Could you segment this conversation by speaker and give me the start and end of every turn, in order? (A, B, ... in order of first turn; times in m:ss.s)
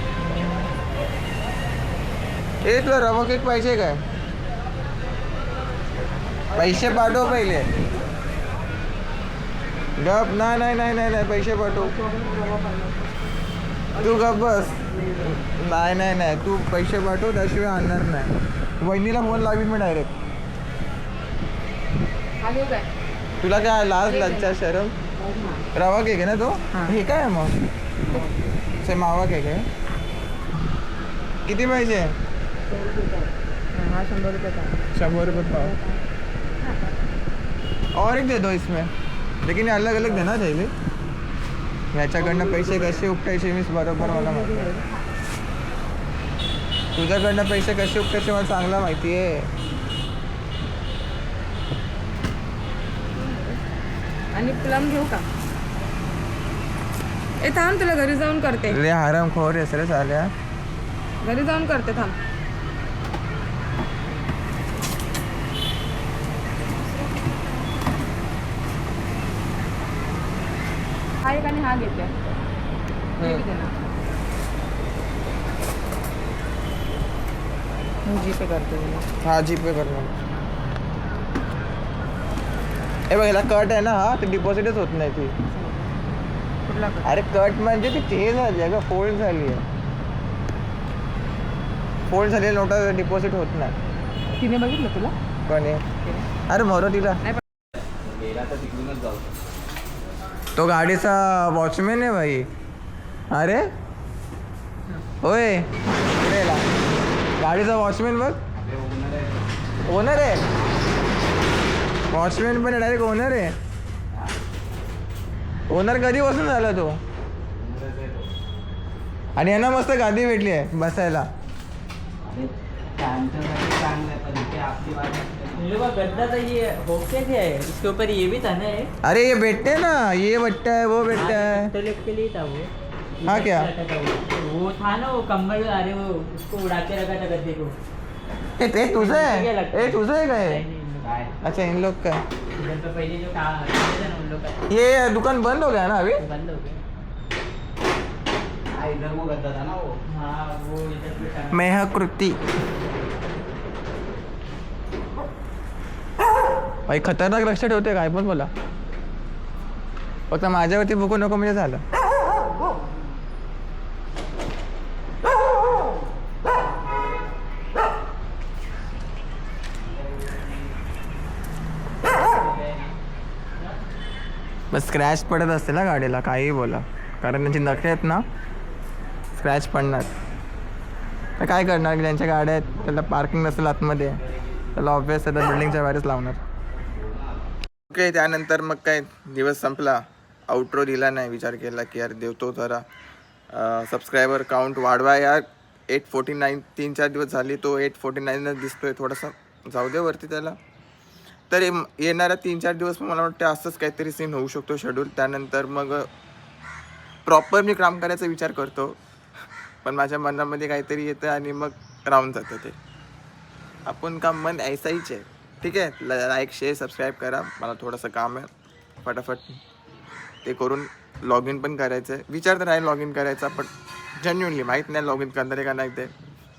0:02.6-0:04.0 A
0:06.5-0:07.7 A
0:10.0-0:12.0 A
0:12.2-0:12.9 B
0:13.9-0:20.1 A
0:22.4-0:22.9 B
0:23.4-0:25.0 A
0:24.1-0:24.5 B
0:25.3-0:25.6 B
0:25.7-0:27.6 A
0:28.8-0:29.7 A
0:31.4-0:32.1 A
0:33.7-0:34.9 B
0:34.9-0:35.8 A
0:35.4-0:36.0 B
0:37.9-0:38.9 A
0:39.4-0:40.7 A
0:41.9-0:44.8 A
0:44.1-0:44.9 B
0:46.9-0:49.5 A
0:53.2-0:53.6 B
0:54.3-0:55.3 B
0:57.4-0:58.8 B
0:58.7-1:00.3 A
1:01.2-1:02.2 B
1:11.2-1:12.4 B
1:13.2-1:13.5 A
1:13.2-1:13.7 B
1:18.0-1:19.1 B
1:19.2-1:20.2 A
1:23.1-1:25.4 A
1:25.5-1:25.9 B
1:26.7-1:27.1 B
1:27.0-1:29.6 A
1:32.1-1:33.8 A
1:34.4-1:35.2 B
1:35.4-1:35.9 A
1:36.5-1:37.3 A
1:38.0-1:39.3 C
1:40.6-1:42.5 A
1:43.3-1:43.7 A
1:45.2-1:46.7 A
1:47.4-1:48.4 A
1:48.6-1:49.4 C
1:49.8-1:50.4 A
1:52.1-1:53.6 A
1:55.7-1:57.0 A
1:57.6-1:58.3 C
1:59.3-2:01.3 A
2:02.2-2:05.6 C
2:05.6-2:08.9 D
2:09.0-2:11.7 A
2:11.2-2:12.7 D
2:13.2-2:17.8 D
2:13.2-2:13.7 A
2:18.6-2:20.6 A
2:18.9-2:21.3 D
2:21.0-2:21.3 C
2:21.4-2:22.2 A
2:22.6-2:24.6 D
2:24.7-2:26.2 A
2:26.2-2:26.8 D
2:28.7-2:30.0 C
2:30.1-2:31.6 D
2:31.5-2:32.4 A
2:36.9-2:38.5 A
2:40.3-2:41.8 A
2:52.1-2:52.9 D
2:54.7-2:58.2 A
2:59.3-3:00.1 A
3:01.4-3:04.2 A
3:04.7-3:06.4 A
3:07.9-3:12.8 A
3:13.5-3:20.6 A
3:21.5-3:26.1 A
3:27.2-3:29.0 A
3:29.8-3:32.8 A
3:33.8-3:38.5 A
3:39.0-3:39.6 A
3:40.4-3:46.1 A